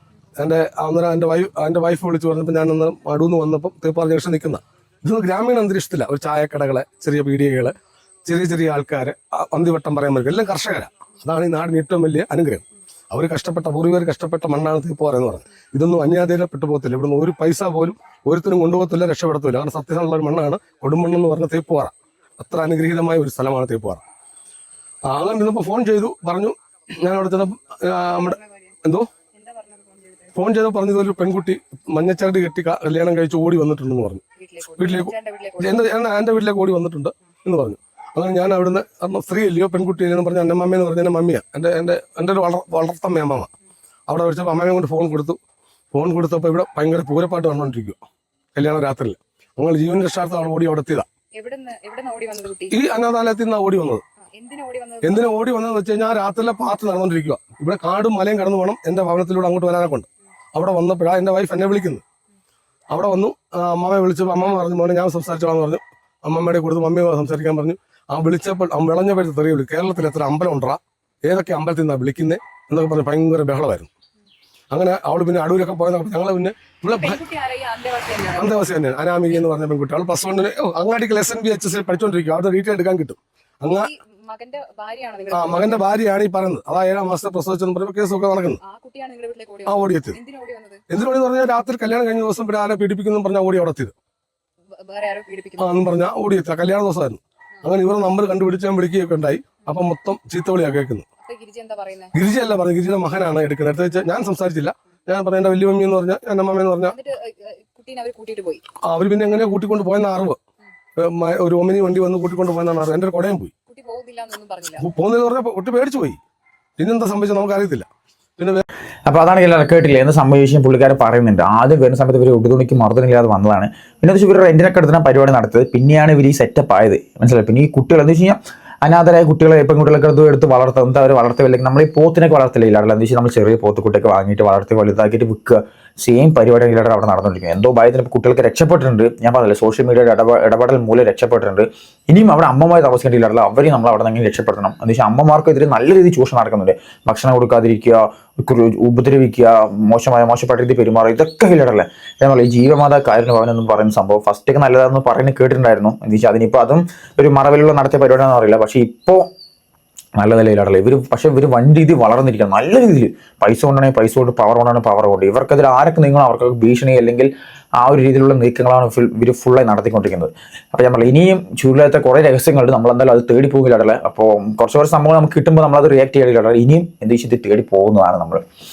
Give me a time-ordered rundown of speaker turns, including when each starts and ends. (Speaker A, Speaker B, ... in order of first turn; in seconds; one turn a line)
Speaker A: 0.4-24.0
Speaker A: 25.1-29.1
Speaker B: 28.1-28.7
Speaker B: 29.3-30.3
Speaker A: 30.3-34.2
Speaker B: 34.4-36.1
Speaker A: 34.8-43.5
Speaker A: 44.1-45.4
Speaker A: 45.9-48.0
Speaker A: 48.5-51.1
Speaker B: 51.3-52.8
Speaker A: 52.7-54.0
Speaker B: 54.3-55.3
Speaker A: 55.0-62.0
Speaker A: 62.9-73.9
Speaker A: 74.7-77.2
Speaker B: 76.9-78.7
Speaker A: 78.3-83.9
Speaker B: 83.8-86.0
Speaker A: 85.3-88.6
Speaker B: 88.6-90.8
Speaker A: 89.7-90.2
Speaker A: 90.9-93.9
Speaker B: 94.8-95.9
Speaker A: 95.6-101.0
Speaker B: 101.2-102.2
Speaker A: 102.1-107.0
Speaker B: 106.8-108.6
Speaker A: 108.8-110.4
Speaker A: 111.0-113.5
Speaker B: 113.7-114.9
Speaker A: 114.7-116.2
Speaker A: 116.8-117.9
Speaker A: 118.4-118.6
Speaker C: 119.1-159.3
Speaker C: 160.2-167.3
Speaker C: 167.8-178.4